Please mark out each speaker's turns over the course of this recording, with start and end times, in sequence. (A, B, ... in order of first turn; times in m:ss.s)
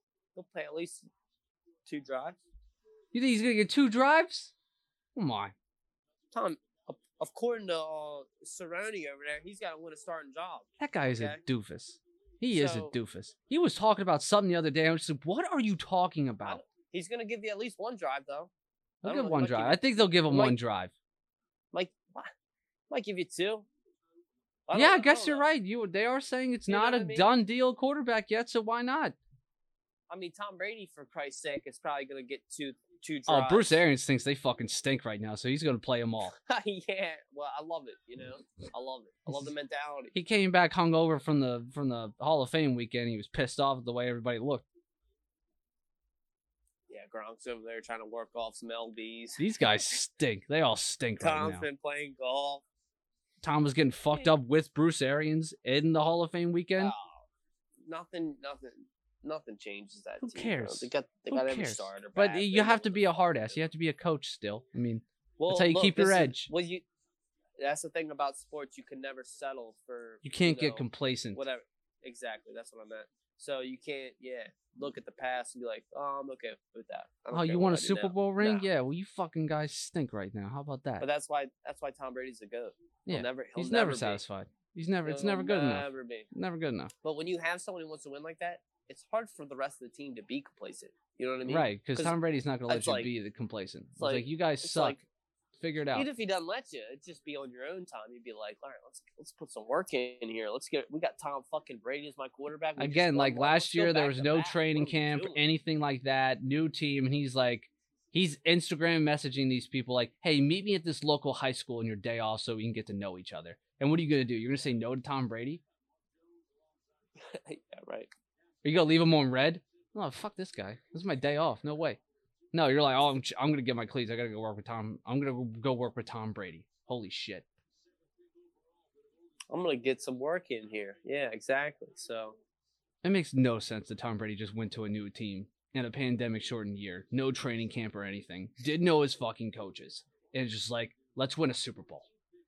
0:00.3-0:01.1 A
0:01.8-0:02.4 A
0:03.1-0:04.5 B
0:05.1-0:05.5 B
0:06.3-0:11.4 A
0:10.8-0:16.6 B
0:12.5-0:12.9 A
0:16.4-0:18.5 A
0:19.0-0:20.6 A
0:19.0-0:20.9 B
0:21.7-0:22.3 A
0:22.9-0:23.7 A
0:24.7-0:25.4 A
0:24.7-0:29.2 B
0:26.7-0:27.3 A
0:30.1-0:33.8 A
0:33.3-0:36.3 B
0:36.3-0:40.1 A
0:40.1-0:44.6 B
0:46.9-0:49.4 A
0:49.4-0:51.6 B
0:51.2-0:52.6 A
0:53.4-0:56.9 B
0:56.8-0:57.3 A
0:57.8-1:03.6 A
1:00.2-1:06.5 B
1:05.4-1:06.8 A
1:07.6-1:18.6 A
1:10.2-1:11.4 B
1:17.3-1:21.0 B
1:21.0-1:24.2 A
1:23.0-1:26.9 B
1:25.0-1:26.3 A
1:27.0-1:32.2 A
1:31.4-1:35.0 B
1:32.7-1:33.1 A
1:34.0-1:35.0 A
1:35.6-1:36.1 B
1:35.9-1:45.4 A
1:42.8-1:55.6 B
1:57.2-1:58.1 A
1:58.6-2:02.0 B
2:02.5-2:07.4 B
2:09.5-2:12.4 A
2:13.0-2:22.1 B